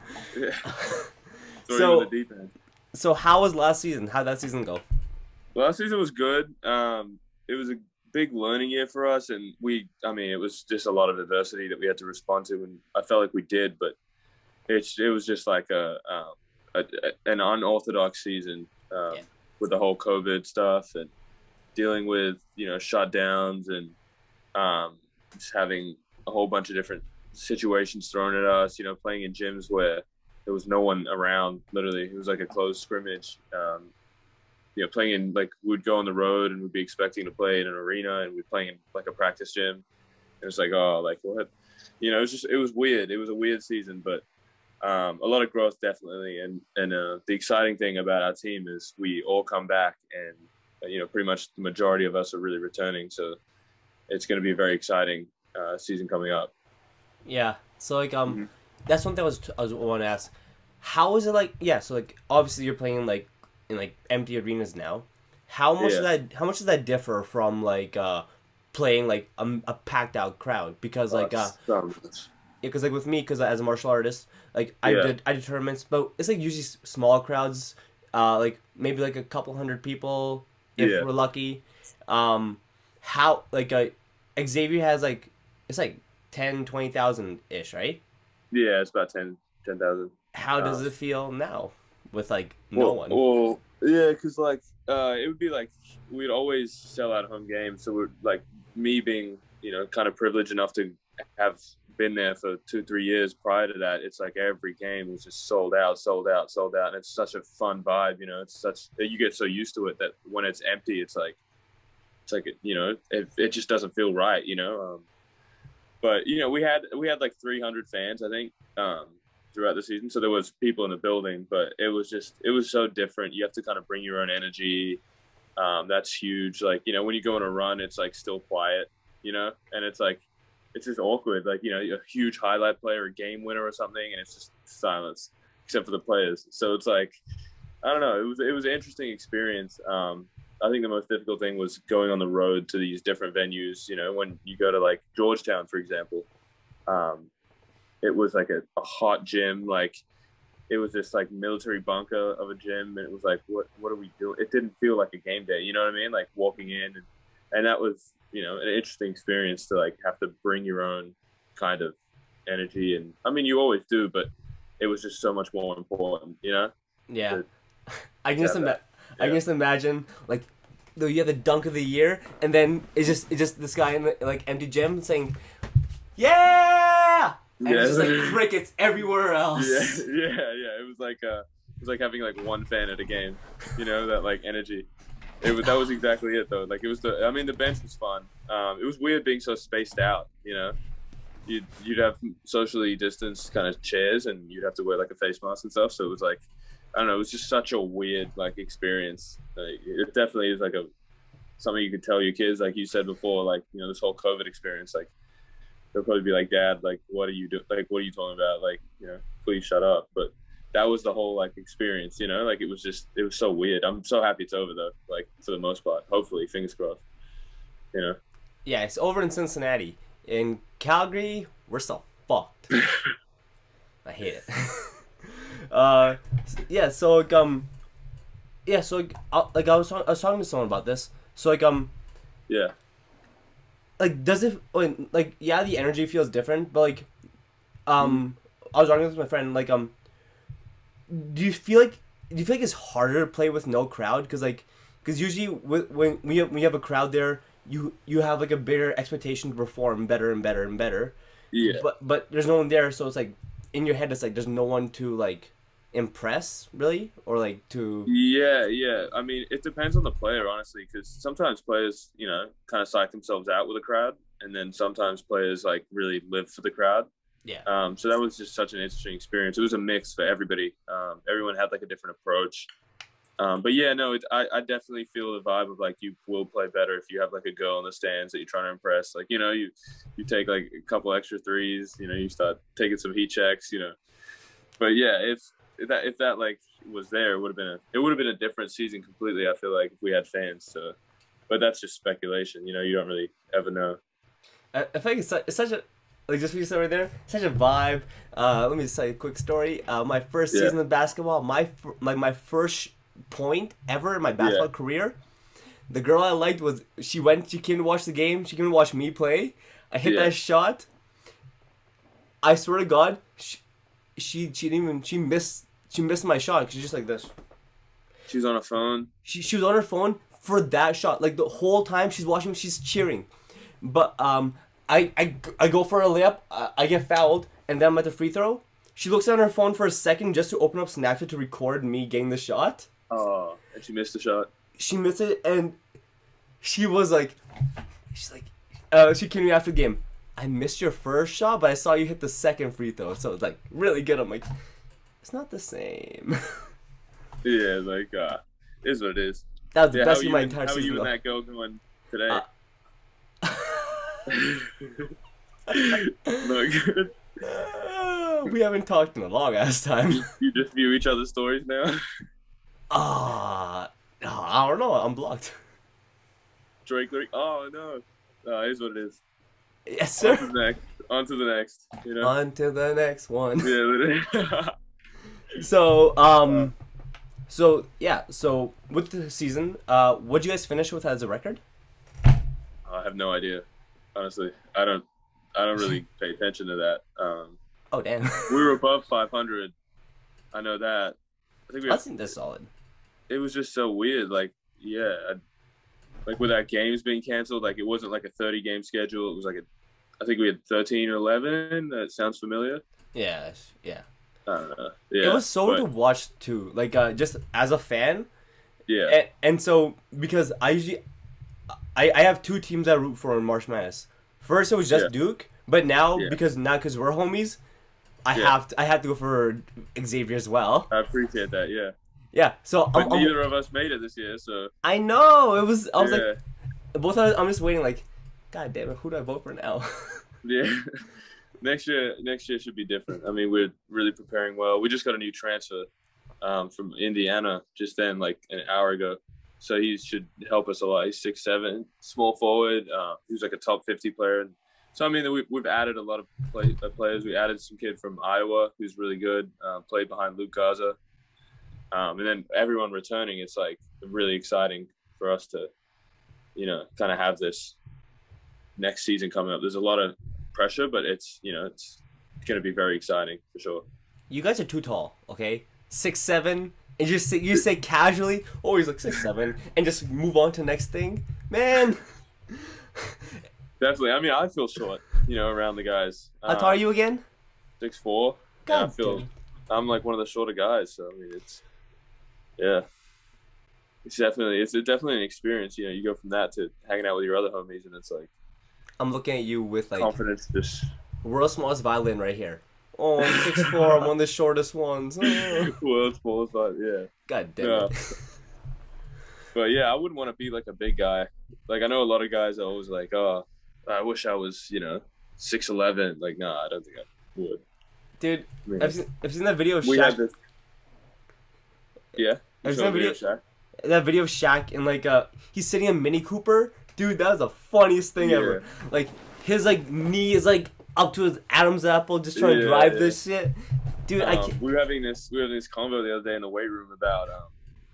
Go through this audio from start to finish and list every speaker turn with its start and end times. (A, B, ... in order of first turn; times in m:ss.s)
0:00.3-0:01.0 A
0:00.7-0:01.1 B
0:01.7-0:02.5 A
0:01.7-0:02.1 B
0:02.9-0:04.8 B
0:05.5-0:14.0 A
0:14.7-0:21.1 A
0:21.7-0:24.0 A
0:24.5-0:33.9 A
0:34.8-0:39.8 A
0:40.4-0:41.5 A
0:42.0-0:44.2 A
0:44.8-0:53.4 A
0:54.1-0:56.5 A
0:57.2-1:11.6 B
1:05.8-1:06.1 A
1:11.1-1:12.3 A
1:12.6-1:28.0 B
1:14.8-1:15.1 A
1:20.8-1:21.1 A
1:28.5-1:30.9 A
1:30.3-1:33.2 B
1:32.7-1:51.4 A
1:52.3-1:55.0 A
1:56.0-2:05.0 A
2:05.6-2:17.2 A
2:17.8-2:26.3 A
2:26.9-2:27.3 A
2:28.0-2:30.0 A
2:30.7-2:42.0 A
2:42.5-2:46.7 A
2:47.1-2:55.4 B
2:48.4-2:49.4 A
2:56.2-3:00.0 B
2:57.6-2:58.4 A
2:59.5-3:04.9 A
3:05.4-3:10.8 A
3:11.5-3:20.8 A
3:21.6-3:25.1 A
3:25.9-3:37.0 A
3:37.9-3:38.2 A
3:38.6-3:42.7 B
3:44.0-3:47.7 B
3:48.6-3:51.9 B
3:52.5-3:52.7 A
3:54.0-3:57.1 B
3:57.8-3:59.9 B
4:01.1-4:11.2 B
4:11.5-4:11.8 A
4:11.7-4:18.1 B
4:18.1-4:27.1 A
4:27.6-4:32.7 A
4:33.4-4:43.9 A
4:44.8-4:50.9 A
4:51.5-4:54.0 A
4:54.7-5:05.2 B
5:04.4-5:04.7 A
5:05.9-5:10.9 B
5:10.0-5:10.3 A
5:12.4-5:13.6 B
5:14.2-5:17.3 B
5:18.3-5:19.1 A
5:19.2-5:23.3 B
5:23.8-5:32.9 B
5:33.1-5:34.5 A
5:34.8-5:35.8 B
5:36.6-5:37.4 B
5:38.1-5:44.5 B
5:45.2-5:46.6 B
5:47.4-5:52.4 A
5:49.7-5:51.1 B
5:53.4-5:54.2 B
5:54.3-5:55.1 A
5:55.7-5:57.1 A
5:55.9-5:56.4 B
5:57.4-6:00.3 B
6:00.1-6:02.0 A
6:02.9-6:05.6 B
6:06.8-6:09.2 A
6:09.9-6:10.5 B
6:10.2-6:12.3 A
6:12.2-6:13.7 B
6:13.6-6:14.7 A
6:15.5-6:16.7 B
6:17.5-6:21.6 B
6:22.8-6:27.6 A
6:27.9-6:28.7 B
6:28.5-6:29.7 A
6:30.5-6:31.2 A
6:31.7-6:32.0 A
6:31.9-6:32.7 B
6:33.3-6:35.4 A
6:36.2-6:39.6 A
6:40.2-6:42.8 A
6:43.1-6:44.0 B
6:44.4-6:45.8 A
6:45.2-6:48.3 B
6:48.9-6:49.2 A
6:49.1-6:51.0 B
6:51.9-6:57.6 B
6:58.2-7:00.9 B
7:00.9-7:01.9 A
7:02.3-7:03.3 B
7:02.9-7:04.7 A
7:04.8-7:06.3 B
7:06.0-7:06.4 A
7:06.9-7:10.2 B
7:10.4-7:10.9 A
7:11.6-7:15.9 A
7:16.4-7:31.0 A
7:31.9-7:35.7 A
7:36.6-7:37.8 A
7:38.8-7:43.8 A
7:44.3-7:53.2 B
7:53.8-7:56.8 A
7:56.5-7:57.2 B
7:57.8-8:01.6 A
7:58.6-7:59.3 B
8:02.6-8:02.8 A
8:04.0-8:08.3 A
8:09.0-8:10.1 B
8:10.0-8:10.9 A
8:11.2-8:15.7 B
8:13.2-8:14.0 A
8:15.2-8:18.2 A
8:17.3-8:18.1 B
8:19.5-8:27.6 A
8:28.2-8:30.2 B
8:28.6-8:29.0 A
8:29.8-8:30.3 A
8:32.2-8:33.4 A
8:32.6-8:33.2 B
8:33.8-8:44.5 B
8:38.2-8:38.6 A
8:42.4-8:43.2 A
8:44.2-8:47.5 A